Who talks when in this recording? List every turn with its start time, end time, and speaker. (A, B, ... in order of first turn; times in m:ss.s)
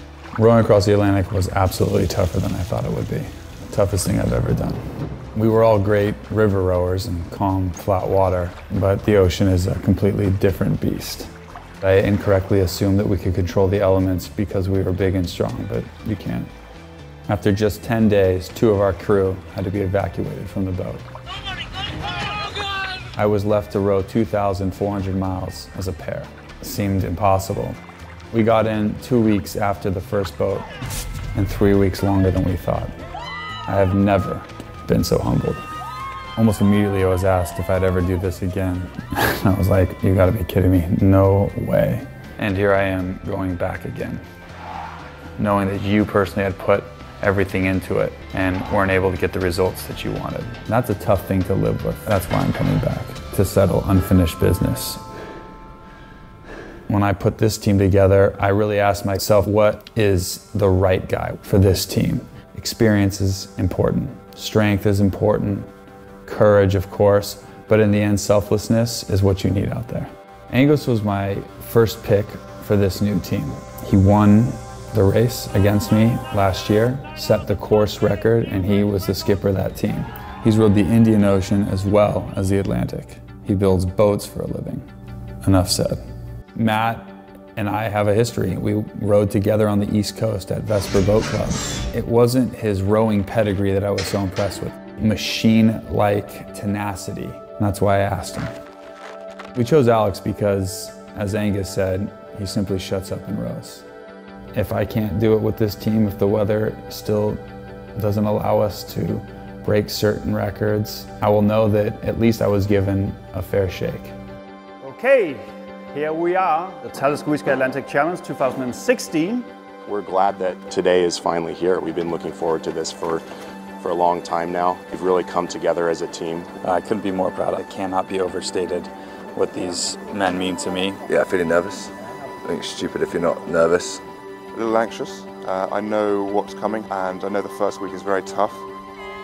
0:00.4-0:04.8 A
0:05.3-0:11.3 A
0:11.8-0:16.5 A
0:17.3-0:21.0 A
0:23.1-0:27.8 A
0:28.3-0:30.7 A
0:31.4-0:32.9 A
0:33.7-0:35.6 A
0:36.3-0:44.2 A
0:45.4-0:55.0 A
0:56.9-1:05.7 A
1:06.2-1:24.9 A
1:25.4-1:26.0 A
1:26.6-1:38.5 A
1:39.5-1:43.9 A
1:44.6-1:47.4 A
1:48.0-1:54.2 A
1:54.8-1:59.5 B
1:59.9-2:03.2 C
2:03.8-2:06.5 C
2:06.6-2:11.0 A
2:11.1-2:11.9 D
2:12.4-2:14.0 D
2:14.5-2:18.7 E